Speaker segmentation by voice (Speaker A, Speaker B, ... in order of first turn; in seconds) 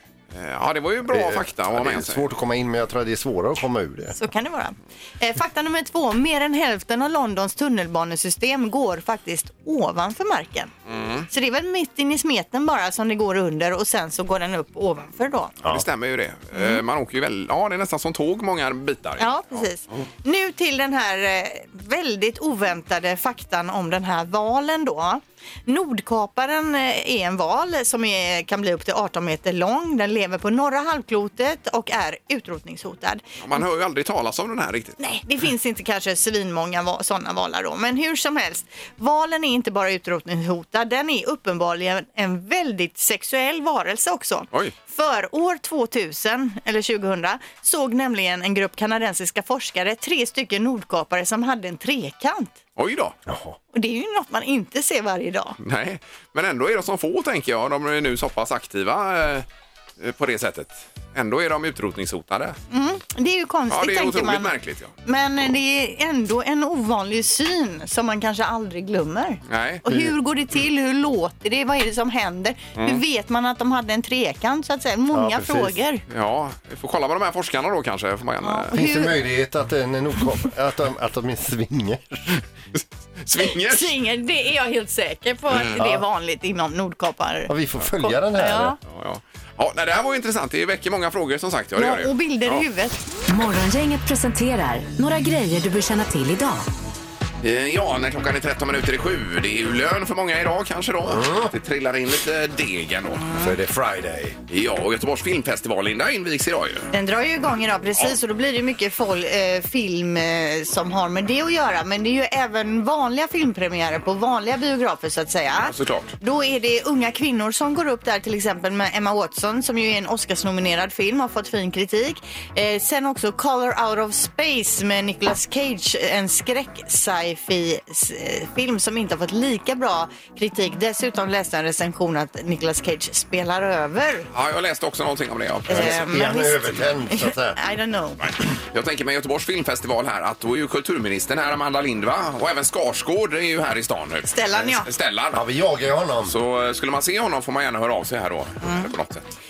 Speaker A: 0.3-2.3, 10.9-11.3, 15.7-20.1, 33.4-35.0, 52.8-53.2, 55.6-59.5, 60.0-62.6, 63.7-64.9, 69.5-69.8, 72.8-73.0, 76.1-78.8, 82.8-83.9, 88.9-92.6, 97.4-103.2, 104.5-106.9, 115.7-116.1, 134.3-136.0, 138.2-145.4, 146.2-149.2
Speaker B: 1.1-4.1, 53.3-53.6, 75.1-75.8, 78.7-82.3, 87.5-88.8, 101.0-101.5, 103.3-104.4, 135.7-137.6, 145.3-146.3
Speaker C: 4.1-10.7, 11.3-15.5, 16.5-16.8, 19.2-33.2, 35.0-52.5, 53.7-55.6, 62.7-64.5, 65.0-76.0, 78.4-79.1, 83.4-88.8, 91.8-93.0, 103.2-103.5, 106.9-134.3, 135.7-138.2, 144.3-144.9, 148.6-148.9
Speaker D: 93.3-96.7